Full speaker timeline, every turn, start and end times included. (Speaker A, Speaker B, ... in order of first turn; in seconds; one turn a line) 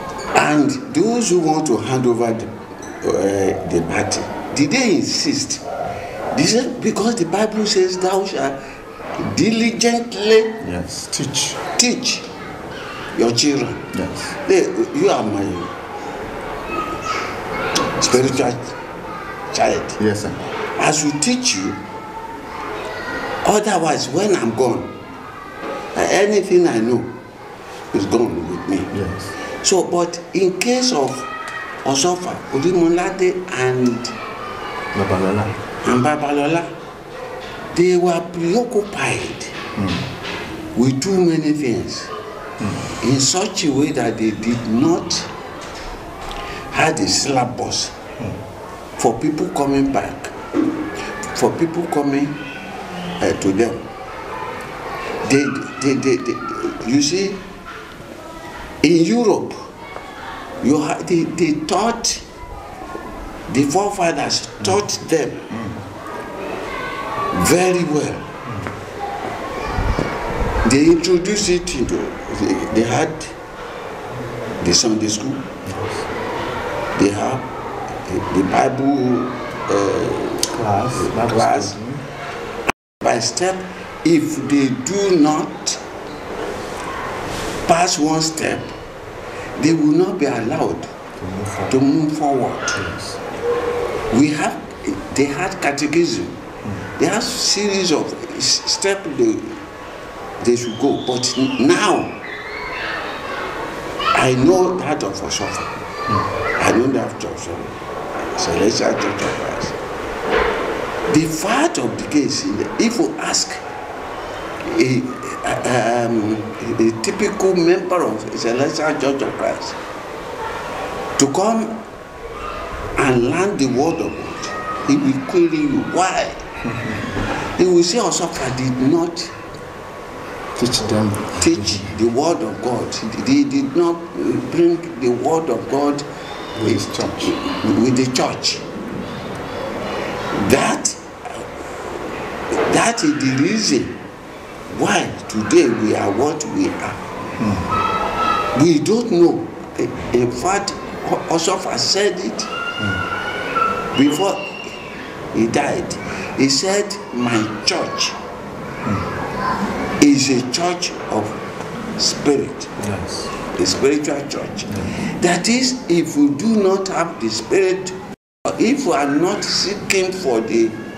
Speaker A: 0.3-5.7
Speaker A: 6.3-10.6
Speaker B: 10.6-11.6
Speaker A: 11.8-12.3
Speaker A: 13.1-13.9
Speaker B: 13.9-14.4
Speaker A: 14.4-15.7
Speaker A: 18.0-18.8
Speaker B: 18.1-18.4
Speaker A: 19.5-20.0
Speaker B: 20.0-20.4
Speaker A: 20.8-21.8
Speaker A: 23.4-25.0
Speaker A: 25.9-27.2
Speaker A: 27.9-31.3
Speaker B: 28.9-29.3
Speaker A: 31.8-34.2
Speaker B: 34.9-35.6
Speaker A: 35.8-36.7
Speaker A: 37.7-39.5
Speaker B: 39.8-40.1
Speaker A: 40.7-42.1
Speaker A: 43.0-45.3
Speaker A: 46.7-48.0
Speaker A: 49.0-50.4
Speaker A: 51.2-52.4
Speaker A: 53.2-53.9
Speaker A: 55.2-57.4
Speaker A: 58.8-59.7
Speaker A: 60.6-62.2
Speaker A: 63.5-65.5
Speaker B: 65.5-65.8
Speaker A: 67.3-68.3
Speaker B: 68.5-68.7
Speaker A: 70.6-73.3
Speaker A: 74.6-75.5
Speaker B: 75.7-76.1
Speaker A: 77.0-77.5
Speaker A: 78.1-81.8
Speaker B: 80.5-82.0
Speaker A: 83.0-85.8
Speaker A: 87.7-88.8
Speaker A: 89.6-90.9
Speaker B: 91.2-91.8
Speaker A: 91.7-92.8
Speaker B: 92.7-93.2
Speaker A: 94.1-99.6
Speaker A: 100.4-102.2
Speaker A: 104.1-105.8
Speaker A: 106.6-109.8
Speaker A: 111.1-113.6
Speaker A: 114.6-119.8
Speaker A: 121.2-121.8
Speaker A: 123.0-126.4
Speaker B: 126.6-127.2
Speaker A: 127.5-129.3
Speaker B: 130.6-131.9
Speaker A: 131.4-136.1
Speaker B: 136.6-137.3
Speaker A: 136.6-138.7
Speaker A: 140.3-141.5
Speaker A: 142.5-144.0
Speaker A: 144.7-147.1
Speaker B: 147.4-147.7
Speaker A: 148.5-152.5
Speaker A: 153.9-154.8
Speaker A: 155.3-158.2
Speaker A: 160.0-161.4
Speaker A: 162.0-162.7
Speaker B: 162.8-163.3
Speaker A: 163.5-170.8